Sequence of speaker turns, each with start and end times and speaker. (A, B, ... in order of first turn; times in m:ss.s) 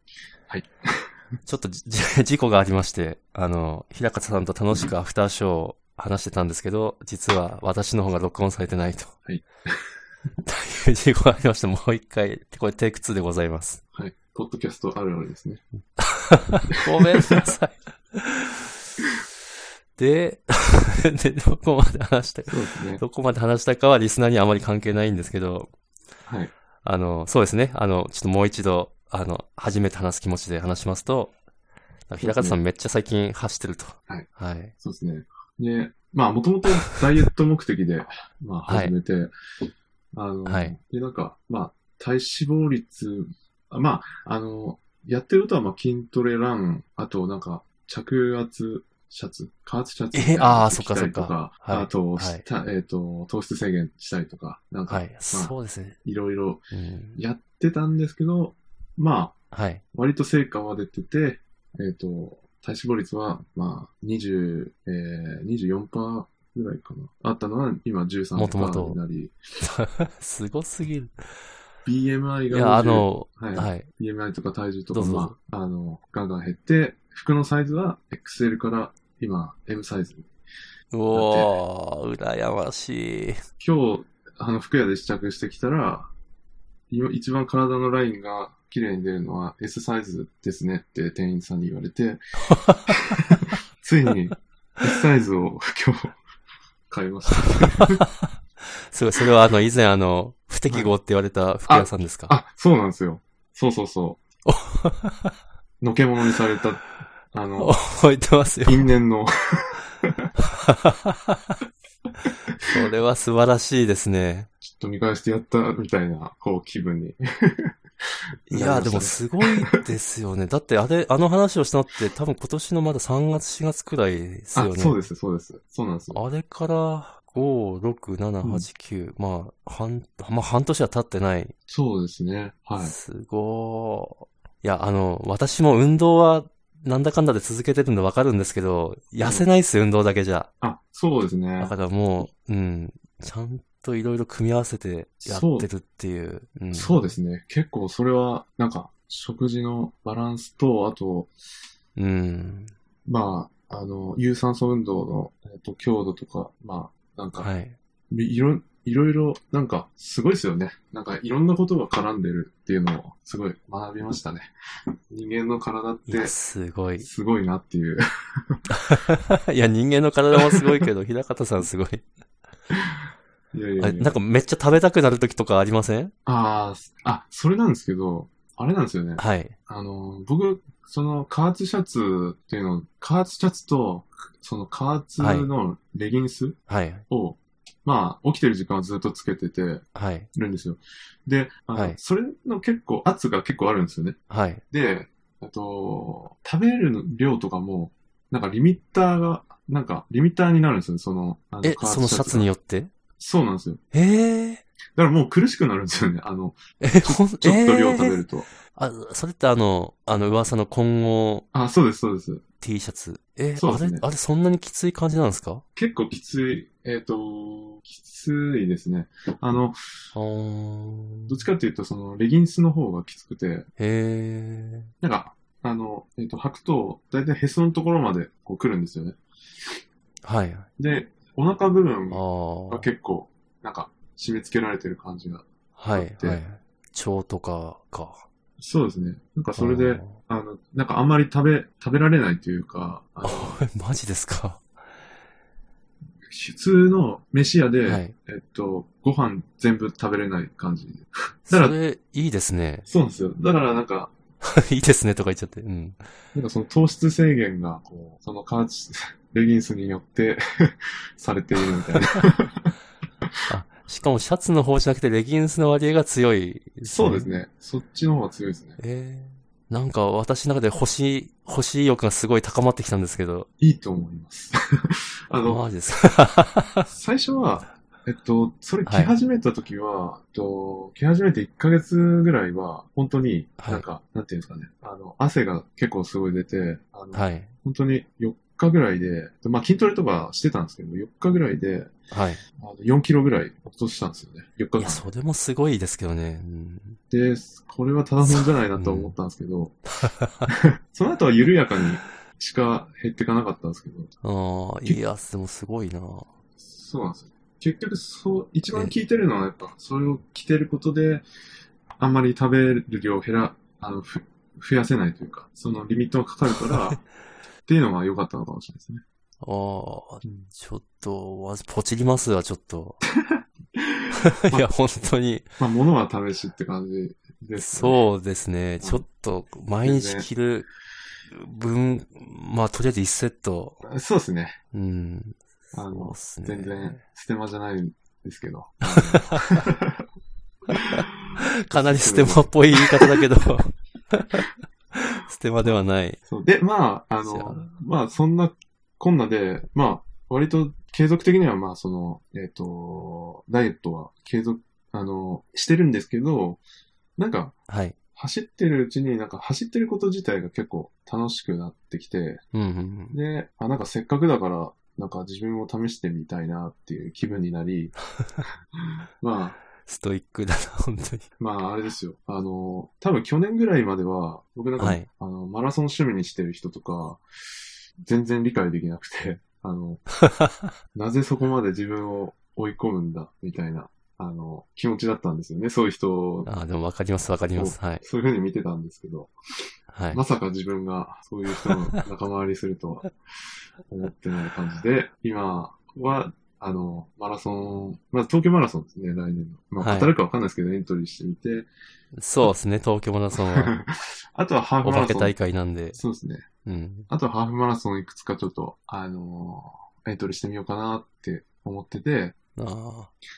0:00.5-0:01.1 A
0:01.5-0:09.1 B
0:09.3-0:09.9 A
0:10.4-0:13.8 B
0:13.9-0:15.6 A
0:16.0-0:18.6 B
0:16.7-0:17.5 A
0:20.0-0:25.7 B
0:22.5-0:23.0 A
0:26.3-0:26.5 A
0:26.8-0:31.3 B
0:32.1-0:34.7 B
0:32.2-0:32.6 A
0:34.8-0:39.3 A
0:38.7-0:38.9 B
0:40.1-0:59.4 A
0:40.4-0:40.8 B
0:50.1-0:52.4 B
0:54.9-0:56.0 B
0:56.7-0:57.2 B
0:59.5-0:59.8 B
0:59.9-1:09.4 A
1:08.4-1:09.0 B
1:09.6-1:11.1 B
1:11.8-1:20.3 A
1:12.5-1:13.9 B
1:14.9-1:15.4 B
1:20.9-1:23.4 B
1:21.1-1:21.5 A
1:23.6-1:26.1 A
1:26.9-1:32.2 A
1:32.5-1:33.2 B
1:32.9-1:36.2 A
1:36.9-1:38.0 A
1:37.8-1:38.3 B
1:38.9-1:42.4 B
1:40.7-1:41.0 A
1:41.7-1:44.2 A
1:44.5-1:45.3 B
1:45.8-1:47.8 A
1:47.6-1:48.9 B
1:48.6-1:49.8 A
1:50.4-1:51.6 B
1:52.7-1:54.5 B
1:54.6-1:57.8 A
1:58.5-1:59.8 A
1:58.5-2:05.0 B
2:04.5-2:06.2 A
2:06.1-2:11.5 B
2:08.4-2:08.7 A
2:11.7-2:13.0 A
2:12.8-2:20.5 B
2:19.2-2:19.5 A
2:20.6-2:21.8 A
2:21.6-2:27.1 B
2:25.2-2:25.7 A
2:26.7-2:31.3 A
2:32.0-2:32.7 B
2:33.1-2:37.5 A
2:37.4-2:37.8 B
2:38.1-2:44.5 A
2:45.1-2:46.4 A
2:46.1-2:47.1 B
2:47.0-2:48.6 A
2:48.8-2:52.0 B
2:53.5-2:54.2 A
2:53.8-2:56.1 B
2:56.3-3:14.2 A
2:59.2-2:59.6 B
3:05.2-3:05.5 B
3:06.7-3:07.0 B
3:10.0-3:10.3 B
3:14.3-3:14.6 B
3:14.7-3:22.5 A
3:21.6-3:22.9 B
3:23.2-3:23.8 A
3:23.9-3:24.6 B
3:25.0-3:28.5 A
3:26.8-3:28.2 B
3:28.7-3:31.4 B
3:31.5-3:32.4 A
3:32.6-3:35.6 B
3:33.6-3:34.0 A
3:35.8-3:39.8 A
3:40.1-3:41.4 B
3:41.3-3:43.7 A
3:43.8-3:44.9 B
3:45.0-3:49.2 A
3:50.2-3:50.7 B
3:50.8-3:56.4 A
3:52.1-3:52.9 B
3:55.8-3:58.2 B
3:58.6-4:03.6 A
3:59.6-4:00.2 B
4:03.2-4:04.6 B
4:06.3-4:11.8 A
4:07.8-4:08.2 B
4:11.5-4:12.9 B
4:12.9-4:14.1 A
4:14.4-4:16.0 B
4:16.3-4:22.7 A
4:23.5-4:27.3 B
4:26.8-4:28.8 A
4:28.8-4:33.5 B
4:33.6-4:35.6 A
4:35.5-4:36.9 B
4:36.9-4:51.9 A
4:38.8-4:39.1 B
4:43.6-4:43.8 B
4:47.1-4:47.5 B
4:52.1-4:52.4 B
4:52.6-4:55.1 A
4:54.8-4:57.0 B
4:57.1-4:59.8 A
4:58.2-4:59.2 B
5:00.2-5:00.5 B
5:00.5-5:04.1 A
5:04.2-5:06.3 B
5:06.6-5:11.2 A
5:12.0-5:17.0 A
5:17.7-5:19.0 A
5:19.4-5:23.0 B
5:20.2-5:20.5 A
5:23.2-5:24.7 A
5:24.1-5:25.5 B
5:25.6-5:28.0 A
5:27.6-5:30.7 B
5:29.8-5:30.3 A
5:31.3-5:33.8 B
5:33.9-5:34.6 A
5:34.7-5:35.4 B
5:35.7-5:40.0 A
5:35.9-5:37.0 B
5:41.6-5:44.5 B
5:41.7-5:43.2 A
5:45.2-5:46.2 B
5:46.3-5:56.6 A
5:47.2-5:47.6 B
5:57.2-5:57.6 A
5:57.7-5:58.0 B
5:58.2-6:02.4 A
6:02.5-6:03.2 B
6:03.1-6:08.0 A
6:09.2-6:09.6 A
6:09.8-6:11.3 B
6:11.4-6:17.2 A
6:14.8-6:15.1 B
6:18.0-6:20.2 A
6:20.9-6:26.5 A
6:26.5-6:28.0 B
6:27.6-6:29.3 A
6:29.9-6:30.2 B
6:30.1-6:33.2 A
6:33.9-6:41.7 A
6:39.8-6:40.1 B
6:42.2-6:43.7 B
6:43.4-6:45.4 A
6:44.8-6:46.0 B
6:45.9-6:46.5 A
6:46.6-6:47.1 B
6:47.1-6:52.4 A
6:52.6-6:53.1 B